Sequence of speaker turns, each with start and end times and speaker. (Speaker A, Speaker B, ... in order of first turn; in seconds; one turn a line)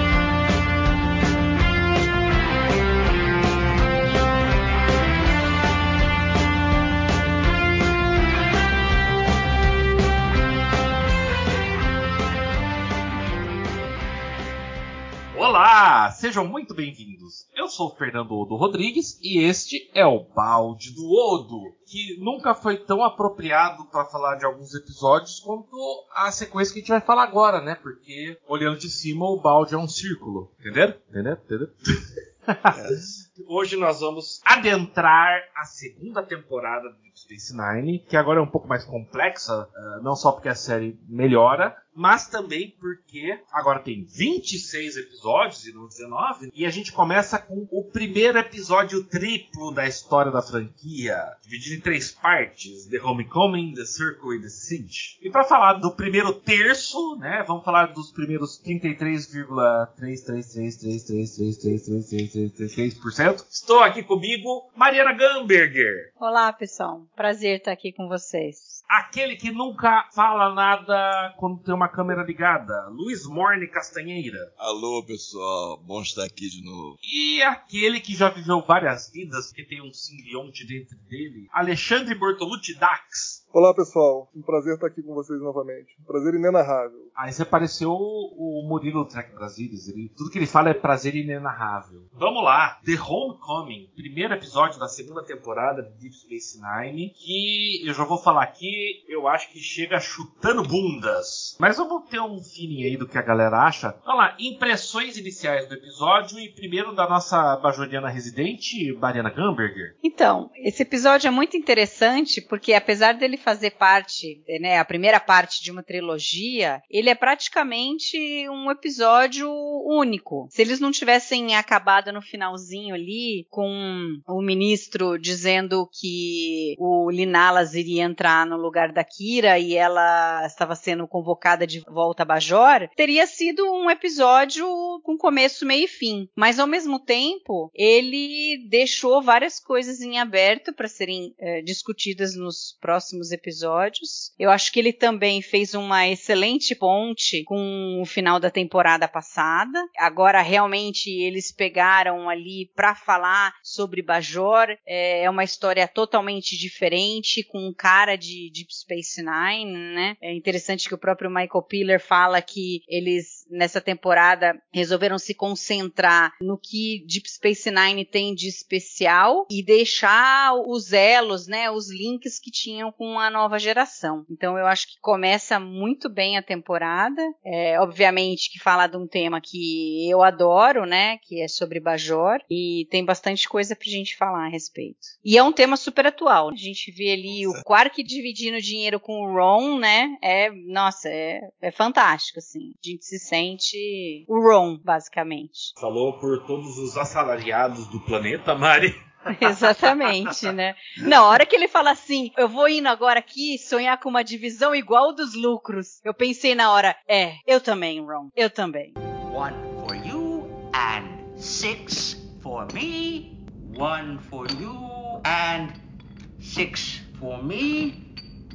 Speaker A: 15.3-32.7
Speaker B: 32.7-33.1
Speaker A: 33.4-66.1
Speaker C: 66.2-68.8
Speaker A: 68.9-74.5
Speaker B: 74.6-77.0
Speaker A: 77.0-83.4
Speaker D: 83.5-87.1
Speaker A: 87.2-109.9
Speaker C: 110.0-195.7
Speaker B: 187.3-187.6
Speaker A: 195.8-200.3
Speaker C: 199.3-208.9
Speaker E: 209.3-215.8
Speaker E: 216.4-218.0